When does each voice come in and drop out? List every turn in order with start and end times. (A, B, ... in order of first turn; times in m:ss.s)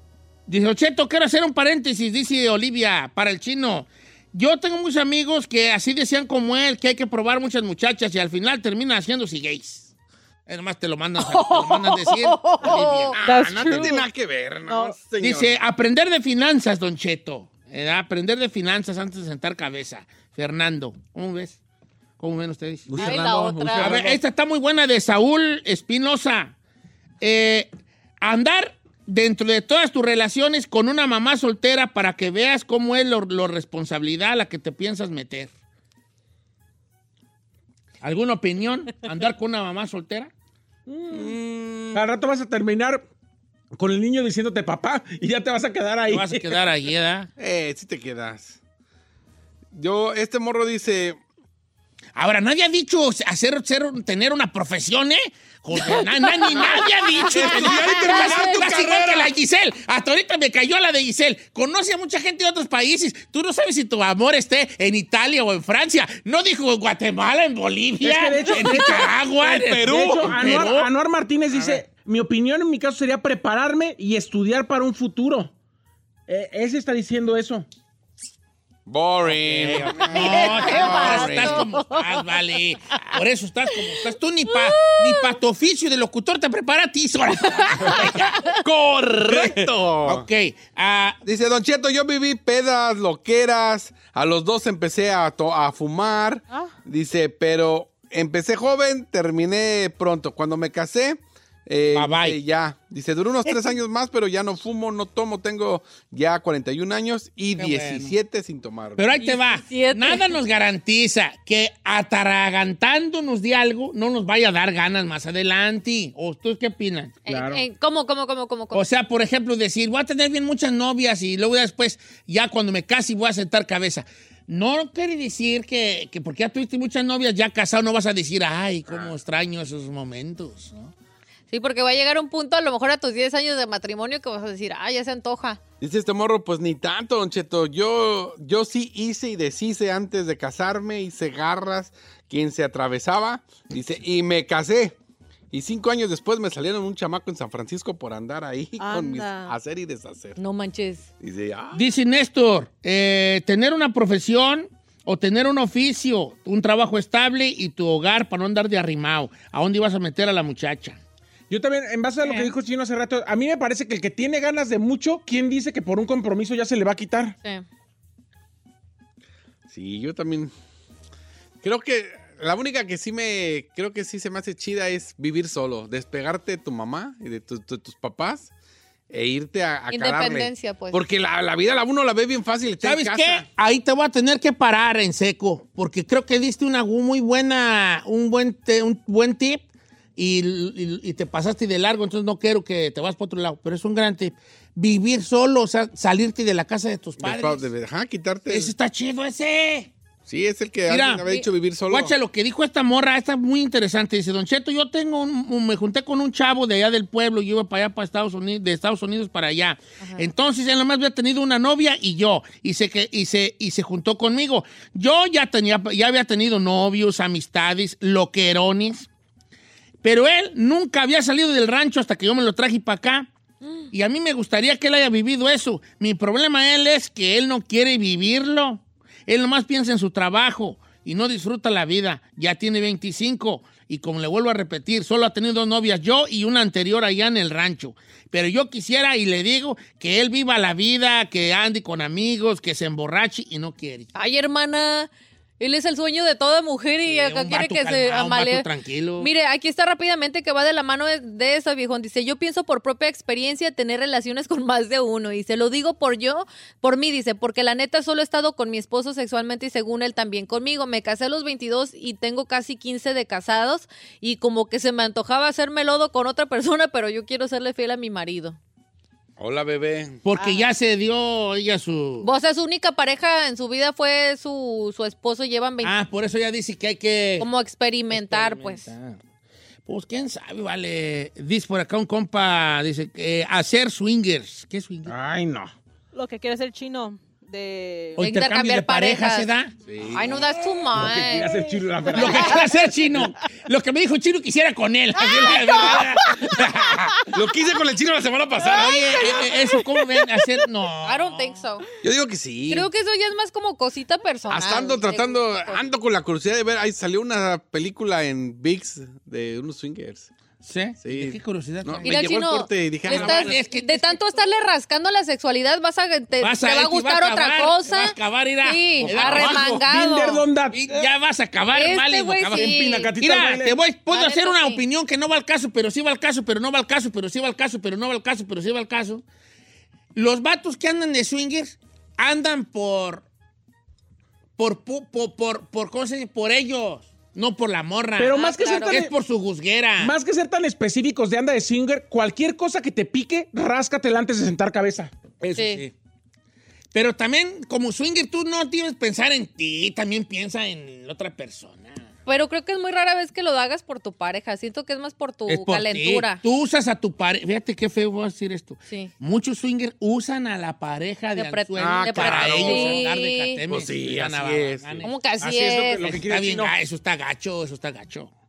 0:00.5-0:09.9 A
0:10.5-0:14.0 A
0:11.3-0:14.1 B
0:12.6-0:13.2 C
0:13.2-0:15.6 D
0:14.6-0:15.0 B
0:15.2-0:21.6 A
0:22.2-0:23.0 A
0:22.9-0:24.0 D
0:22.9-0:24.2 E
0:23.0-0:24.0 C
0:23.8-0:26.5 A
0:27.2-0:27.7 A
0:28.2-0:35.5 A
0:38.0-0:40.3 A
0:40.9-0:41.4 E
0:41.1-0:42.0 D
0:41.9-0:43.0 E
0:43.7-0:46.5 E
0:46.1-0:47.3 A
0:47.4-0:48.6 D
0:49.7-0:51.2 D
0:52.2-1:10.9 A
0:57.2-0:59.3 D
1:08.0-1:09.1 E
1:09.4-1:10.6 D
1:09.6-1:15.5 E
1:11.5-1:11.8 A
1:16.3-1:17.6 E
1:18.9-1:21.6 D
1:19.2-1:28.5 A
1:20.3-1:22.0 C
1:28.0-1:30.2 D
1:29.3-1:31.2 A
1:31.2-1:49.2 D
1:41.9-1:42.4 A
1:43.4-1:43.7 A
1:47.6-1:48.1 A
1:49.0-1:57.2 A
1:49.2-1:50.4 C
1:57.2-1:58.8 C
1:57.3-1:57.6 E
1:58.7-2:10.9 A
2:08.9-2:09.1 D
2:11.5-2:15.6 C
2:15.8-2:24.9 D
2:25.5-2:30.4 D
2:28.8-2:29.6 B
2:30.4-2:31.0 C
2:31.2-2:31.8 D
2:31.7-2:41.0 A
2:41.5-2:47.3 E
2:49.7-2:50.5 D
2:51.6-2:58.5 D
2:59.1-3:03.4 D
2:59.9-3:01.0 C
3:02.8-3:09.6 A
3:10.2-3:17.7 A
3:17.2-3:18.7 D
3:18.5-3:19.9 A
3:20.2-3:22.1 D
3:20.9-3:21.3 A
3:21.9-3:39.1 A
3:40.0-3:43.3 A
3:43.9-4:04.1 A
4:04.1-4:05.1 C
4:05.6-4:08.7 C
4:07.0-4:09.3 A
4:09.2-4:28.6 C
4:29.4-4:30.2 D
4:30.2-4:32.3 A
4:32.2-4:36.0 C
4:35.8-4:37.5 A
4:37.4-4:38.9 C
4:38.1-4:39.2 A
4:39.9-4:45.1 A
4:45.1-4:45.7 E
4:46.1-4:48.2 B
4:48.2-4:49.7 A
4:48.2-4:49.5 C
4:49.9-4:50.5 D
4:50.1-4:51.6 C
4:50.9-4:52.7 E
4:52.1-4:57.2 A
4:52.2-4:52.5 C
4:57.3-4:59.5 D
4:58.6-5:01.5 A
5:01.0-5:01.8 C
5:02.0-5:02.9 D
5:02.7-5:05.8 C
5:04.5-5:10.3 D
5:10.6-5:12.3 A
5:11.0-5:13.6 D
5:12.0-5:20.4 C
5:13.0-5:14.2 A
5:16.4-5:19.8 A
5:19.0-5:19.8 D
5:19.3-5:21.0 E
5:20.7-5:29.2 A
5:21.7-5:23.1 C
5:22.5-5:23.8 E
5:24.1-5:24.8 C
5:30.1-5:33.2 A
5:34.6-5:40.1 A
5:38.2-5:39.1 E
5:38.3-5:39.0 C
5:40.0-5:45.1 E
5:45.4-5:45.9 A
5:45.5-5:45.8 C
5:46.9-5:52.0 A
5:52.2-5:56.4 C
5:55.5-6:05.1 A
6:01.3-6:03.6 C
6:01.8-6:03.0 D
6:03.7-6:05.1 D
6:05.0-6:06.1 C
6:05.4-6:06.7 E
6:06.0-6:08.3 A